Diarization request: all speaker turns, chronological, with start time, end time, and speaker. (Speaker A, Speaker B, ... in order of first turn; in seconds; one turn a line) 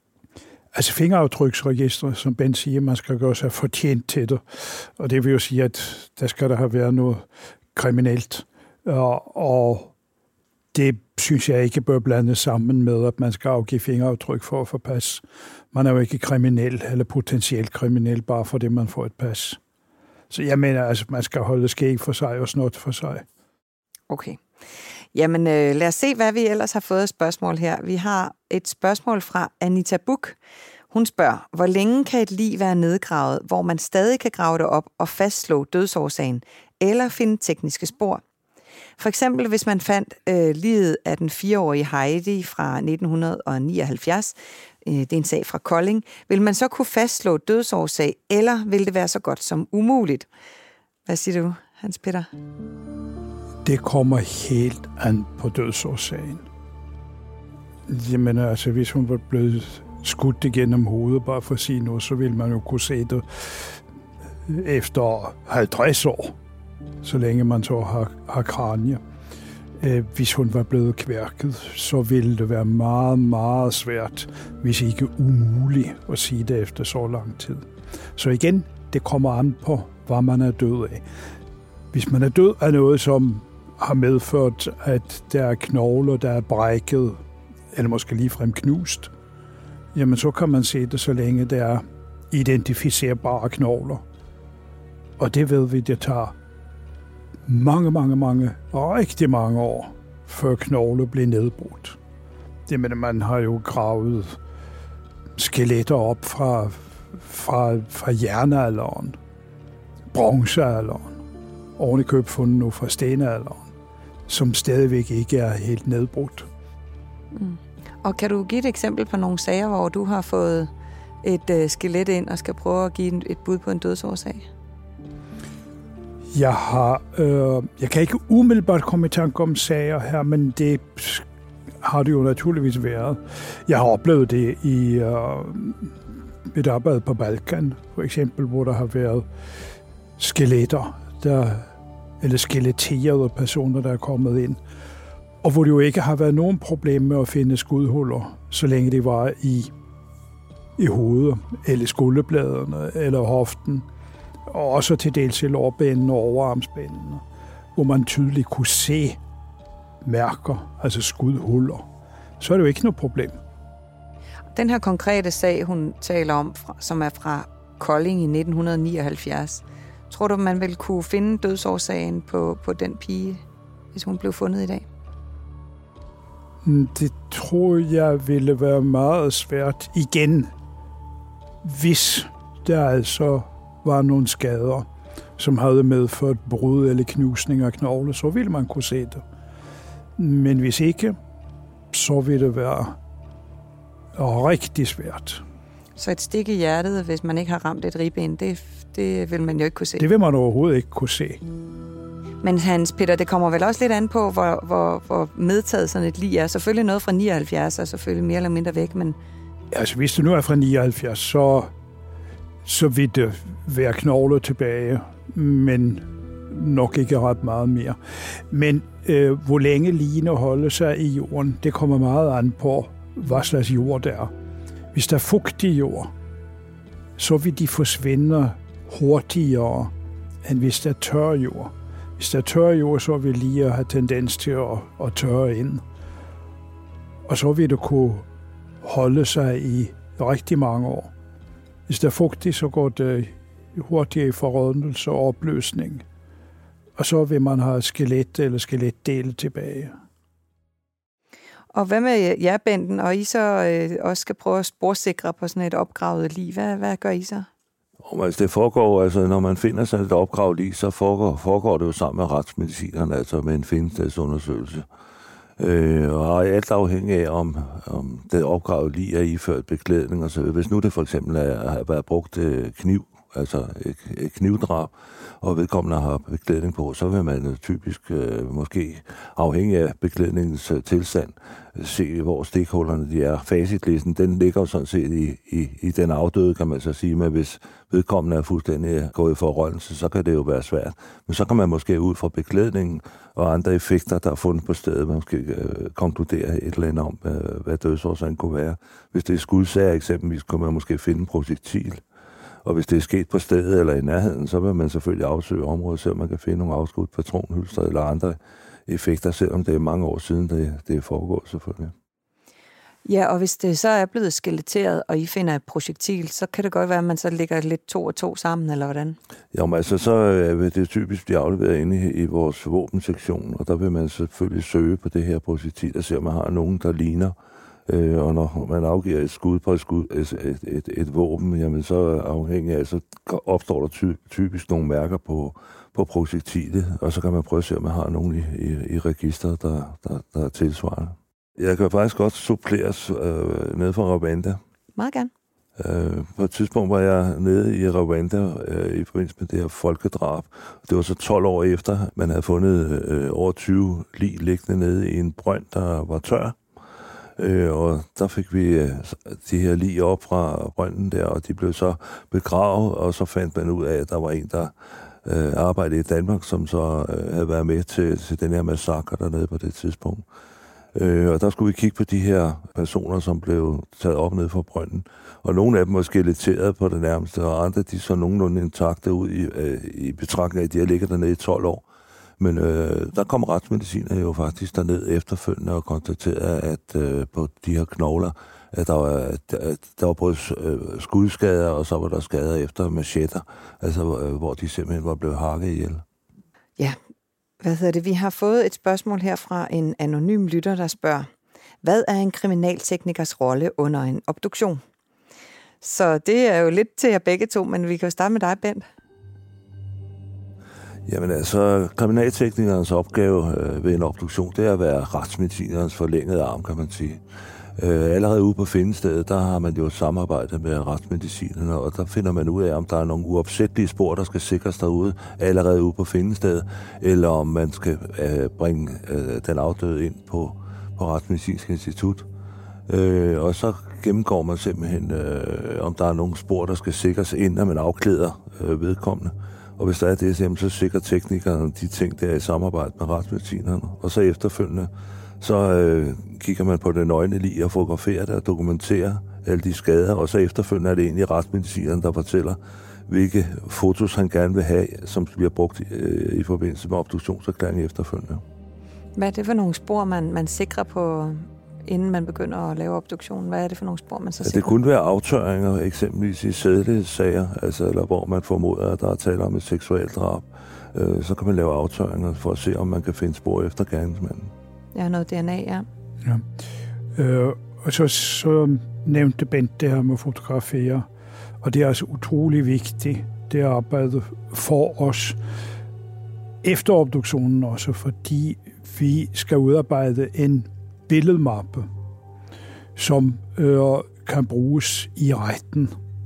Speaker A: 0.7-9.9
Speaker A: 10.7-19.6
Speaker A: 20.3-23.2
Speaker B: 24.1-24.4
Speaker B: 25.1-30.4
Speaker B: 30.9-38.2
Speaker B: 39.0-50.3
Speaker B: 51.1-52.3
Speaker A: 53.6-56.5
Speaker A: 57.9-63.8
Speaker A: 64.5-66.4
Speaker A: 67.0-69.0
Speaker A: 69.8-81.0
Speaker A: 81.9-87.2
Speaker A: 87.7-89.1
Speaker A: 89.9-94.0
Speaker A: 95.2-96.3
Speaker A: 97.5-102.0
Speaker A: 102.7-104.4
Speaker A: 105.4-109.2
Speaker A: 110.1-111.2
Speaker A: 111.8-113.7
Speaker A: 114.3-116.5
Speaker B: 117.3-120.7
Speaker B: 121.2-124.5
Speaker A: 126.3-131.2
Speaker A: 131.8-135.9
Speaker A: 136.5-139.3
Speaker A: 140.2-141.7
Speaker A: 142.2-144.6
Speaker A: 145.4-149.7
Speaker A: 150.8-153.8
Speaker A: 154.5-157.2
Speaker A: 157.8-159.2
Speaker A: 160.0-161.9
Speaker A: 162.4-163.4
Speaker B: 164.6-173.4
Speaker B: 173.9-174.9
Speaker A: 176.6-180.5
Speaker A: 181.6-184.9
Speaker A: 185.4-189.2
Speaker A: 190.2-191.2
Speaker A: 191.9-193.0
Speaker A: 194.2-195.4
Speaker B: 196.0-200.1
Speaker A: 200.0-201.4
Speaker B: 202.4-209.2
Speaker A: 209.7-211.7
Speaker A: 212.7-218.0
Speaker A: 218.5-224.3
Speaker A: 224.9-226.1
Speaker A: 227.2-229.9
Speaker A: 230.4-235.8
Speaker A: 237.3-238.2
Speaker A: 238.8-241.1
Speaker A: 241.9-246.0
Speaker A: 247.0-249.9
Speaker B: 251.7-257.5
Speaker C: 258.0-264.9
Speaker C: 265.6-302.0
Speaker C: 302.6-311.9
Speaker B: 313.1-319.2
Speaker C: 319.5-327.4
Speaker C: 327.9-344.6
Speaker B: 345.0-345.3
Speaker C: 345.8-356.6
Speaker C: 357.4-370.2
Speaker C: 370.9-381.8
Speaker C: 382.4-396.0
Speaker B: 397.6-401.3
Speaker B: 401.8-404.8
Speaker B: 405.8-408.8
Speaker C: 411.1-417.2
Speaker C: 417.8-432.3
Speaker C: 432.9-458.4
Speaker B: 459.2-464.8
Speaker C: 464.4-474.5
Speaker B: 474.9-475.9
Speaker A: 477.2-481.1
Speaker A: 481.6-485.4
Speaker A: 486.6-491.9
Speaker A: 493.0-495.9